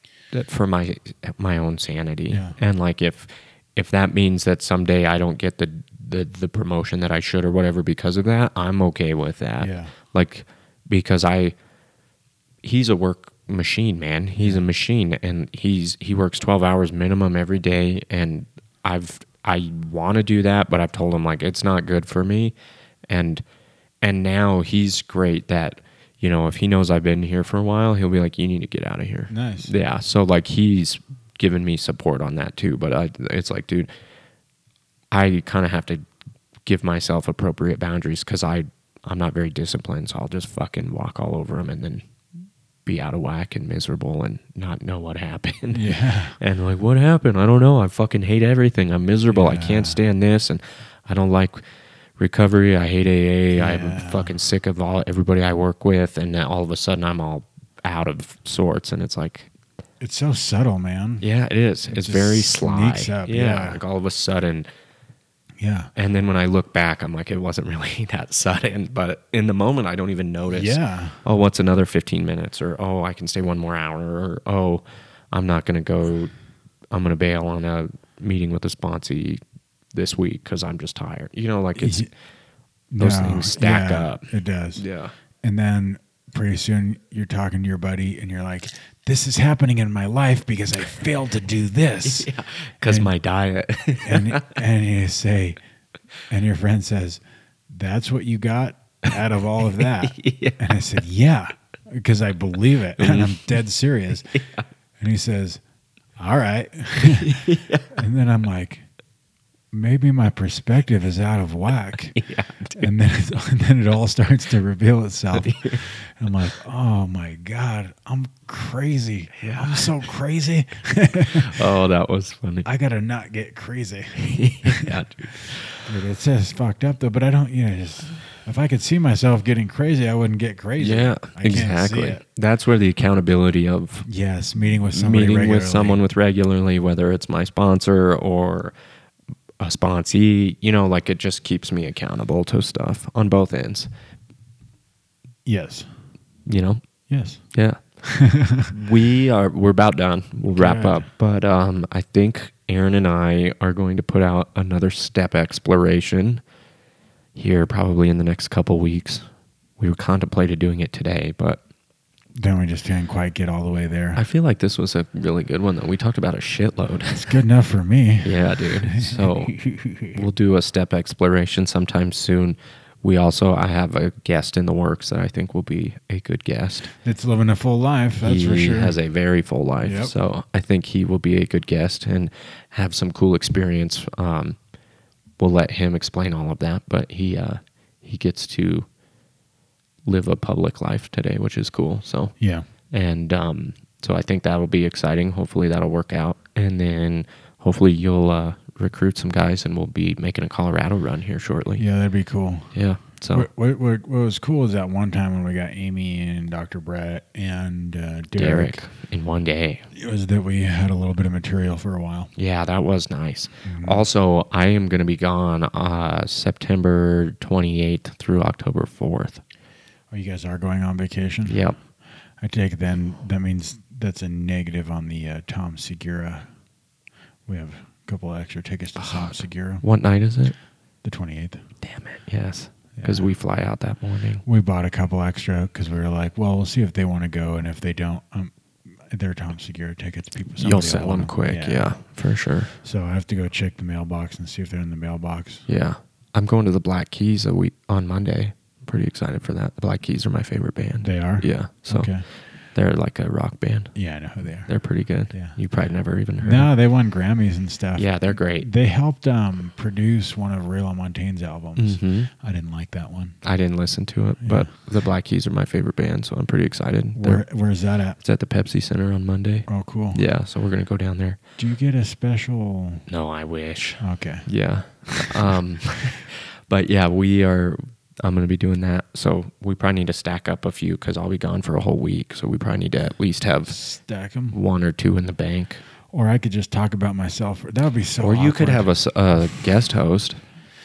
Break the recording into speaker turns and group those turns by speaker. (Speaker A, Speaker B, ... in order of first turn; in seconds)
Speaker A: 0.3-11.6, 12.6-22.5, 23.1-23.4, 24.0-33.9, 35.1-36.0, 36.7-42.0, 42.9-51.6, 52.2-59.5, 61.2-64.7, 66.0-76.3, 76.9-79.4, 79.9-82.1, 83.0-85.1, 92.0-94.5, 99.8-100.6, 103.0-103.5, 104.3-104.7, 107.0-107.9, 112.2-112.9, 115.3-115.8, 119.3-120.0, 121.3-122.7, 124.2-125.9, 130.8-134.1, 134.9-138.8, 139.6-143.9, 146.5-146.8, 147.5-147.8, 148.7-156.4, 157.3-159.3, 159.8-161.6, 164.2-167.4, 168.2-169.6, 170.1-176.9, 178.2-184.6, 185.4-188.9, 190.1-192.3, 192.9-201.8, 202.7-203.5, 208.4-209.9, 212.4-219.4, 221.5-221.8, 229.0-230.6, 231.8-234.4, 240.6-242.7, 245.7-252.1, 252.8-253.9, 254.7-256.7, 258.0-258.7, 261.8-262.3, 263.4-267.4, 268.2-271.4, 273.1-283.8, 284.5-285.8, 288.2-290.4
Speaker B: 2.3-2.6, 9.6-9.9, 29.3-29.7, 45.7-46.4, 49.3-50.0, 53.5-54.4, 60.0-61.2, 61.9-63.8, 65.6-65.9, 70.5-71.2, 81.8-82.1, 82.9-84.8, 85.4-92.3, 92.8-93.1, 94.0-95.6, 96.3-104.3, 105.0-105.6, 106.2-108.8, 109.7-112.2, 112.8-121.7, 122.7-132.2, 134.1-136.0, 145.5-145.9, 147.1-147.4, 148.0-148.7, 150.6-151.1, 162.3-164.2, 167.1-170.2, 177.0-179.0, 179.8-180.2, 192.4-192.7, 201.8-202.7, 203.3-208.9, 209.9-212.3, 213.6-214.0, 220.1-221.6, 222.4-226.5, 227.5-229.8, 231.0-231.6, 233.0-233.3, 234.4-242.0, 242.8-245.7, 251.0-252.2, 253.9-254.7, 255.3-255.9, 256.4-263.4, 264.4-264.7, 267.1-268.2, 269.7-270.2, 271.6-273.1, 274.0-274.5, 275.1-275.5, 283.7-284.6, 286.1-288.9